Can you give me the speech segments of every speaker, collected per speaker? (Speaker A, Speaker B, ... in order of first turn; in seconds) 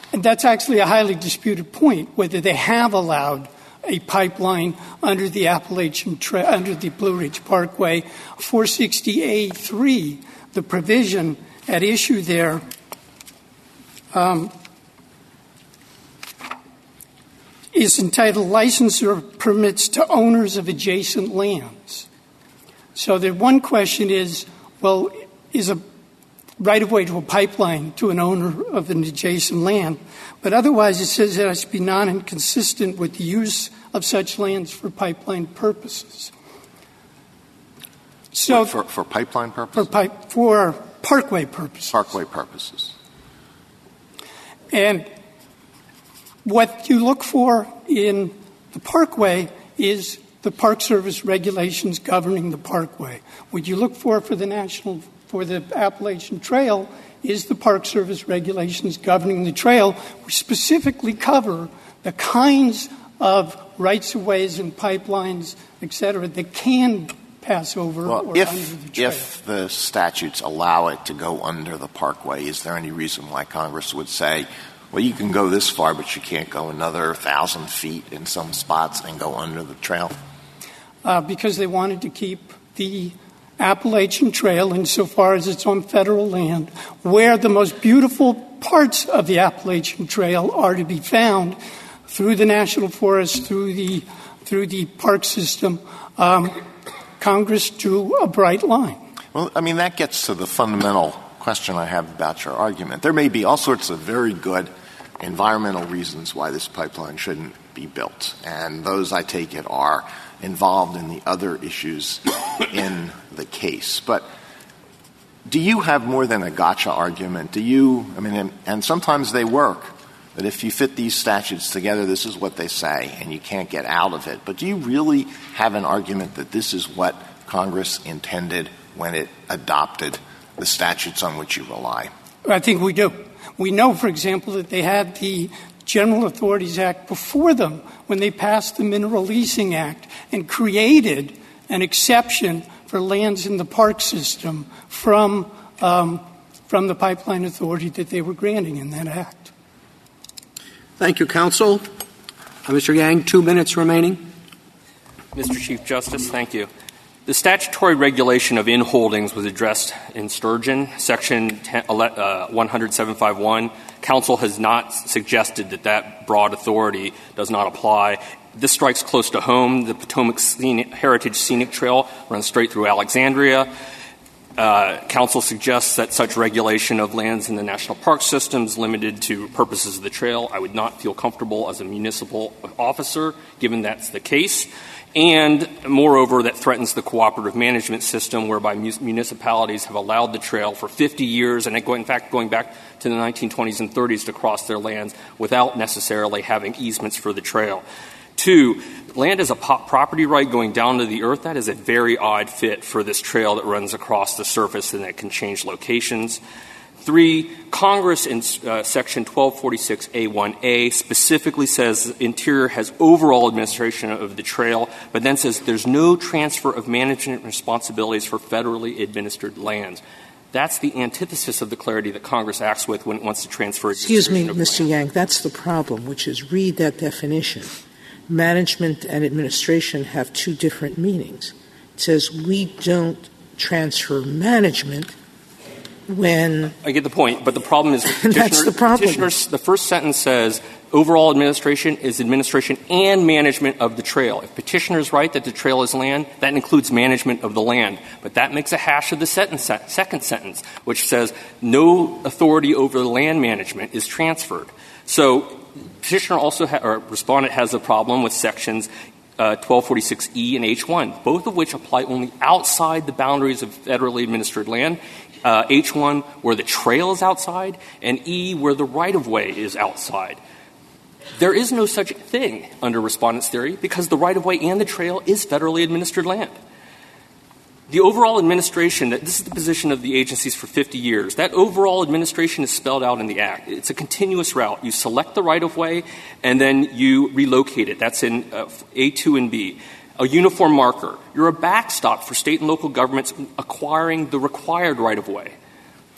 Speaker A: 0.1-12.6, 14.1-14.5, 17.7-22.1, 22.9-25.8, 26.6-36.3, 38.3-38.7, 39.7-41.9, 44.7-45.1, 46.4-69.3, 81.0-96.6, 97.2-99.0, 132.4-149.5
Speaker B: 38.5-40.0, 41.9-42.9, 68.0-80.2, 99.3-114.2, 115.5-132.1
Speaker C: 151.0-151.8, 152.7-154.2
Speaker D: 155.3-156.7, 157.2-173.7, 174.6-197.8, 198.3-206.4, 207.0-220.0, 220.5-224.9, 236.8-270.4, 271.4-276.5, 277.9-295.5
Speaker E: 224.0-227.7, 228.3-235.1, 236.1-236.7, 238.2-239.3